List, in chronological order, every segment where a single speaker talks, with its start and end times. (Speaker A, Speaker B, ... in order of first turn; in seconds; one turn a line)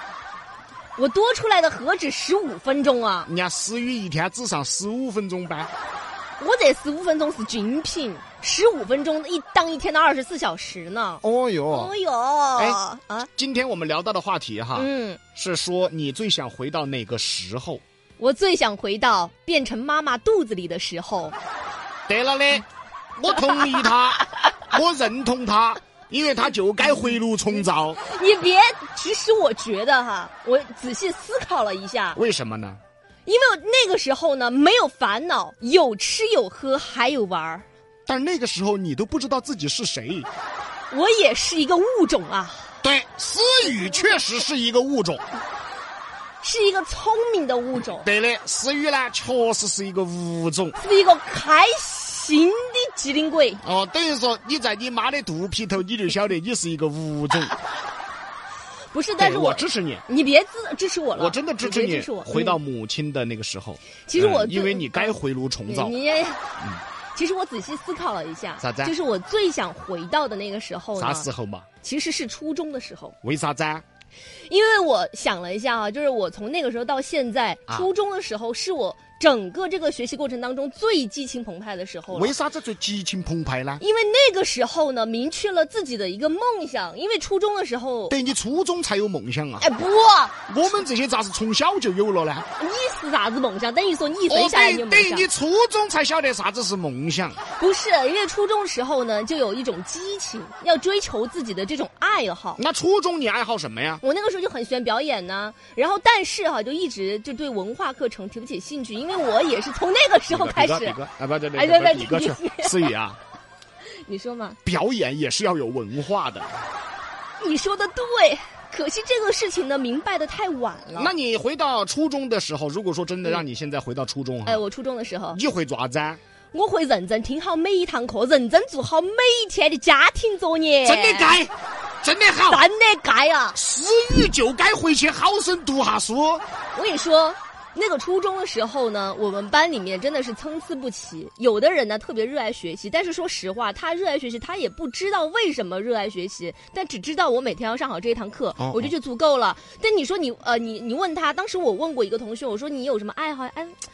Speaker A: 1.0-3.3
Speaker B: 3.3-5.7
Speaker A: 6.4-13.3
Speaker B: 11.2-11.9
Speaker B: 13.4-17.8
Speaker A: 14.8-15.2
Speaker A: 18.2-21.4
Speaker B: 22.1-28.0
Speaker A: 28.0-32.2
Speaker B: 32.1-32.8
Speaker A: 33.3-37.6
Speaker B: 38.1-40.3
Speaker A: 40.9-42.7
Speaker B: 42.8-45.2
Speaker A: 46.4-48.1
Speaker B: 47.8-50.8
Speaker A: 50.8-53.6
Speaker B: 53.6-57.5
Speaker A: 58.9-62.6
Speaker B: 59.2-60.0
Speaker B: 61.2-65.9
Speaker A: 64.1-65.1
Speaker A: 65.7-66.4
Speaker A: 67.1-71.3
Speaker B: 68.6-68.9
Speaker B: 71.0-71.7
Speaker A: 71.8-73.2
Speaker B: 73.2-73.8
Speaker A: 74.5-82.3
Speaker B: 82.1-83.8
Speaker A: 83.8-88.2
Speaker B: 88.1-89.7
Speaker A: 89.6-90.3
Speaker B: 90.5-92.5
Speaker A: 92.6-95.3
Speaker B: 94.3-97.4
Speaker A: 97.6-102.6
Speaker B: 102.6-104.0
Speaker A: 104.0-111.0
Speaker B: 110.3-113.2
Speaker A: 111.6-112.9
Speaker A: 114.0-114.6
Speaker B: 114.7-116.5
Speaker A: 117.4-121.1
Speaker B: 120.9-124.6
Speaker A: 124.5-125.4
Speaker B: 125.3-126.2
Speaker A: 126.5-131.3
Speaker B: 130.8-132.7
Speaker A: 132.5-133.6
Speaker B: 133.6-136.4
Speaker A: 136.7-153.8
Speaker B: 148.6-148.9